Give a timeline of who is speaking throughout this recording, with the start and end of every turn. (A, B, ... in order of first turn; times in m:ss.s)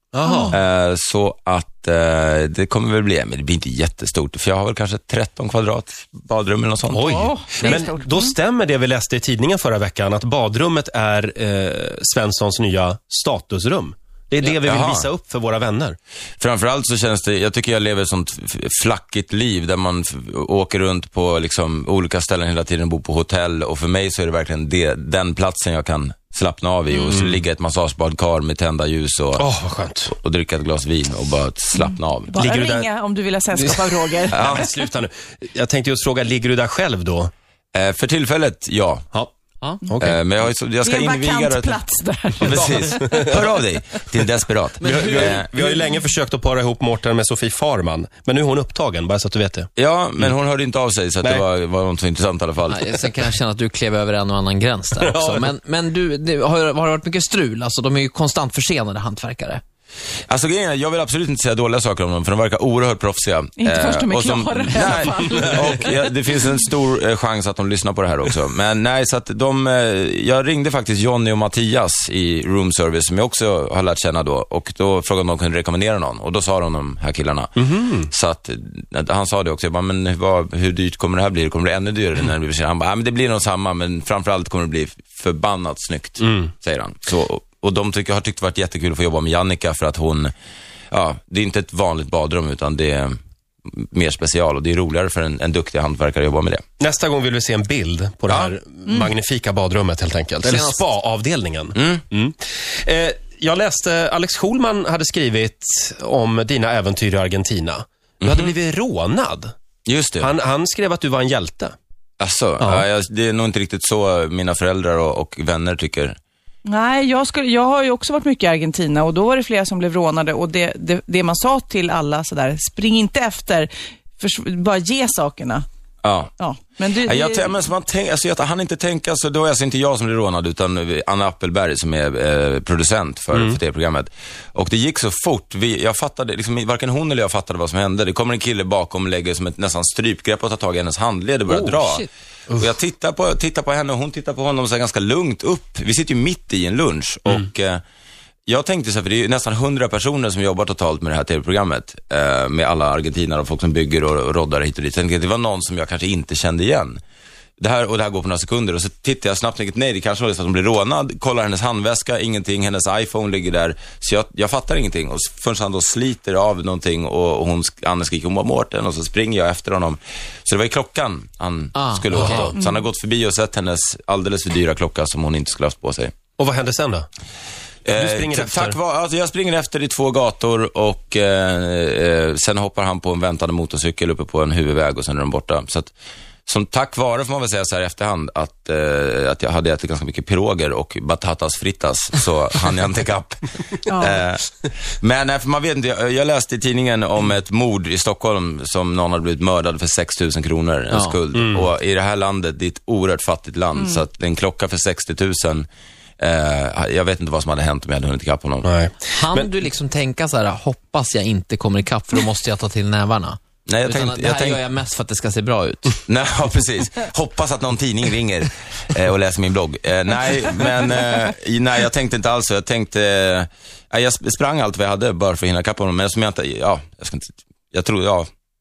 0:00.1-0:00.6 A
0:00.2-0:00.6 B
0:00.5-0:07.3 C
0:06.9-0:16.0 A
0:07.0-0:08.3 B
0:14.6-0:15.1 C
0:16.4-0:29.4 C
0:27.1-0:27.4 A
0:29.4-0:30.1 A
0:30.1-0:32.4 C
0:31.8-0:34.5 B
0:32.4-0:32.9 A
0:33.5-0:37.3 A
0:34.3-0:34.6 C
0:37.7-0:39.0 C
0:39.9-0:40.1 A
0:40.0-0:41.8 C
0:40.8-0:43.1 B
0:42.4-0:45.5 C
0:42.5-0:43.3 A
0:44.8-0:45.4 D
0:44.8-0:49.7 A
0:49.8-0:53.1 C
0:52.7-0:59.6 D
0:55.0-0:55.5 A
1:00.3-1:17.5 C
1:03.6-1:06.0 B
1:17.6-1:18.1 A
1:18.1-1:30.3 C
1:26.2-1:26.5 A
1:30.9-1:33.1 C
1:33.7-1:36.6 C
1:36.8-1:49.5 A
1:38.8-1:39.1 B
1:40.4-1:40.8 D
1:41.8-1:42.0 C
1:48.2-1:48.5 C
1:49.8-1:50.3 C
1:50.2-1:51.7 A
1:52.2-1:56.2 C
1:52.6-1:52.8 A
1:56.6-2:05.6 B
2:06.0-2:06.3 C
2:06.4-2:07.6 B
2:07.0-2:27.8 C
2:21.5-2:22.1 D
2:28.5-2:37.0 C
2:37.6-2:56.1 C
2:51.7-2:52.5 D
2:52.1-2:52.5 A
2:56.4-2:57.0 A
2:57.8-3:05.9 C
2:57.9-2:58.8 A
3:06.5-3:14.4 C
3:13.8-3:14.2 B
3:15.0-3:25.7 C
3:20.9-3:21.2 D
3:21.3-3:21.7 A
3:23.8-3:24.0 B
3:26.2-3:28.7 C
3:28.6-3:29.5 A
3:29.1-3:36.0 D
3:33.7-3:34.6 C
3:36.1-3:48.3 C